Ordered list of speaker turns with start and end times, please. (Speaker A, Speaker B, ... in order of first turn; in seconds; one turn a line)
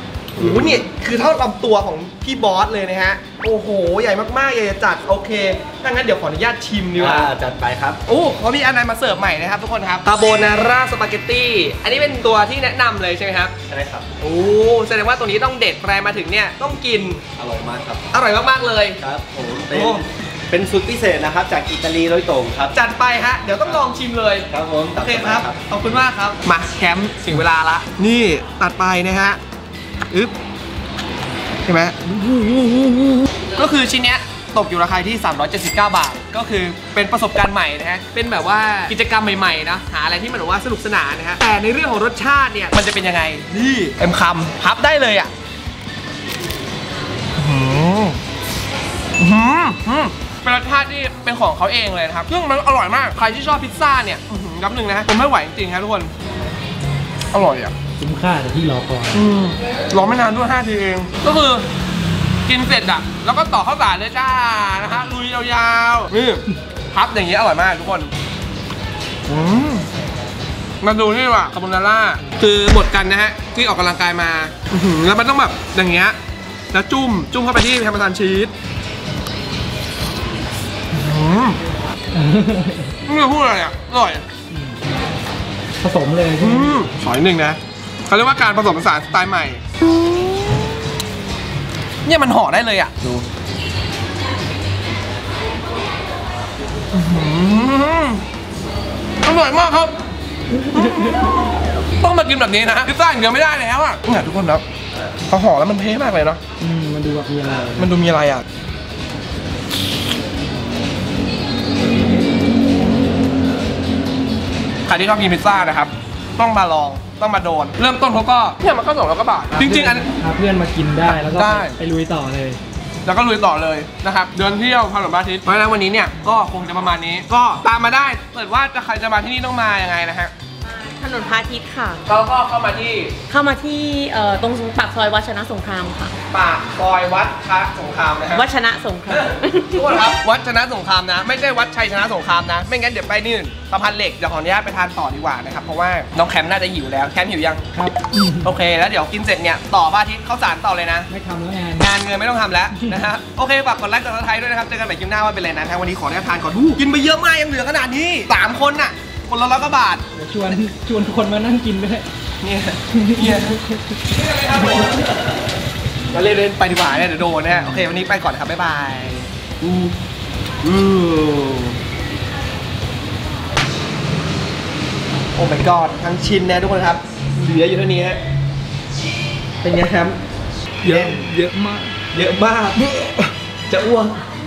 Speaker A: 0.3-7.3
Speaker B: 0.4-0.8
Speaker B: 7.0-8.0
Speaker A: 8.1-13.5
Speaker B: 13.7-14.1
Speaker A: 14.2-17.2
Speaker B: 17.4-18.1
Speaker A: 18.1-19.0
Speaker B: 19.0-22.8
Speaker A: 19.7-20.0
Speaker A: 22.7-29.4
Speaker B: 23.6-23.9
Speaker B: 24.5-25.6
Speaker A: 31.6-45.3
Speaker A: 47.4-48.2
Speaker A: 49.2-56.1
Speaker A: 57.3-57.7
Speaker C: 58.0-59.2
Speaker A: 59.1-61.6
Speaker A: 62.5-68.1
Speaker A: 69.3-69.9
Speaker A: 70.8-76.2
Speaker A: 76.7-78.5
Speaker A: 80.9-81.6
Speaker C: 82.1-82.9
Speaker A: 83.1-84.2
Speaker C: 84.5-84.8
Speaker C: 85.8-86.8
Speaker A: 86.4-90.7
Speaker A: 92.0-93.0
Speaker A: 96.9-98.2
Speaker A: 99.2-100.0
Speaker C: 100.6-101.2
Speaker A: 100.7-101.4
Speaker A: 101.9-104.6
Speaker A: 105.3-106.4
Speaker C: 106.6-107.9
Speaker A: 107.8-108.4
Speaker A: 114.8-120.1
Speaker C: 119.5-122.6
Speaker A: 121.1-121.8
Speaker A: 123.0-130.3
Speaker D: 130.8-132.0
Speaker A: 132.1-133.2
Speaker D: 133.3-136.1
Speaker A: 136.3-138.5
Speaker D: 138.3-139.9
Speaker A: 139.1-147.6
Speaker C: 147.7-148.5
Speaker A: 148.4-151.1
Speaker C: 151.1-151.9
Speaker A: 151.8-160.0
Speaker C: 160.1-162.1
Speaker A: 162.4-165.4
Speaker C: 162.9-165.2
Speaker A: 166.1-169.9
Speaker A: 170.6-171.8
Speaker A: 175.3-178.2
Speaker A: 179.6-180.2
Speaker C: 180.8-181.9
Speaker A: 180.8-181.4
Speaker A: 182.0-183.0
Speaker A: 183.7-184.2